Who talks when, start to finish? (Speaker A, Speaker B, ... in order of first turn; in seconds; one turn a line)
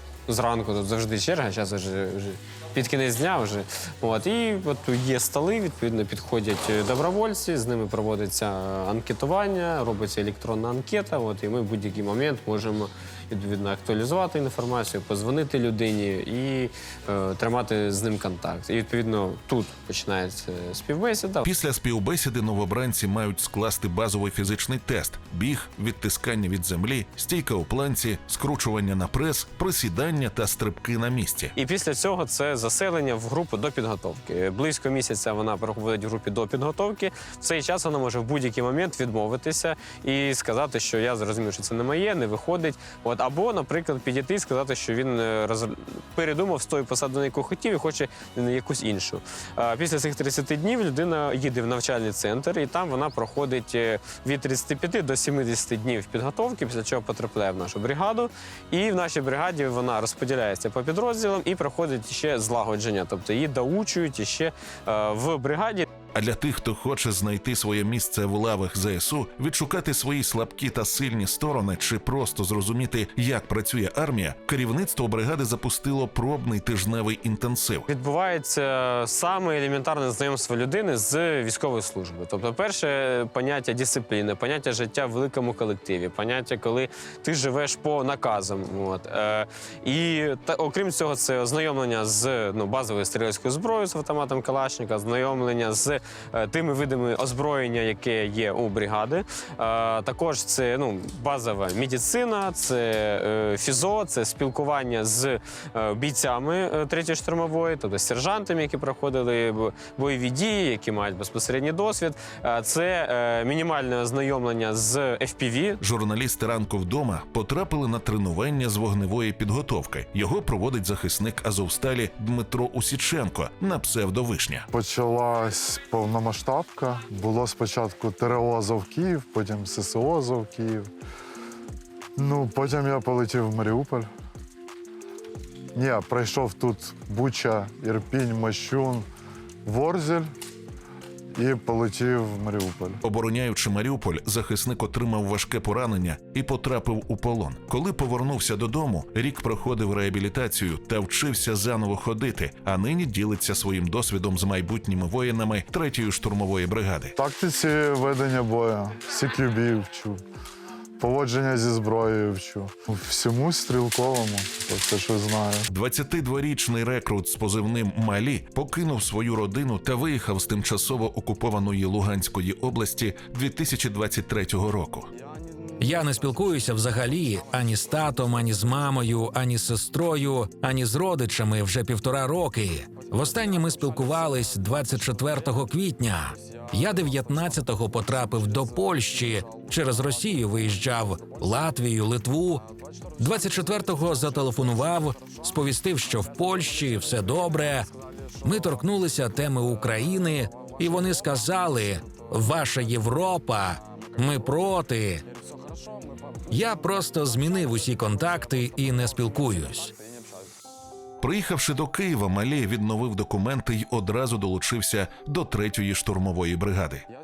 Speaker A: 0.3-21.5
Speaker B: 21.4-31.5
Speaker A: 31.6-65.9
Speaker B: 66.1-77.9
Speaker A: 77.9-115.8
Speaker B: 115.8-124.7
Speaker C: 124.7-130.9
Speaker C: 132.2-134.1
Speaker C: 135.7-139.1
Speaker C: 139.6-140.3
Speaker C: 141.3-143.0
Speaker B: 143.0-157.1
Speaker C: 157.2-160.2
Speaker C: 161.0-165.7
Speaker B: 165.7-175.1
Speaker D: 175.8-192.7
Speaker D: 193.2-197.9
Speaker D: 198.4-205.2
Speaker D: 206.5-209.9
Speaker B: 211.2-217.1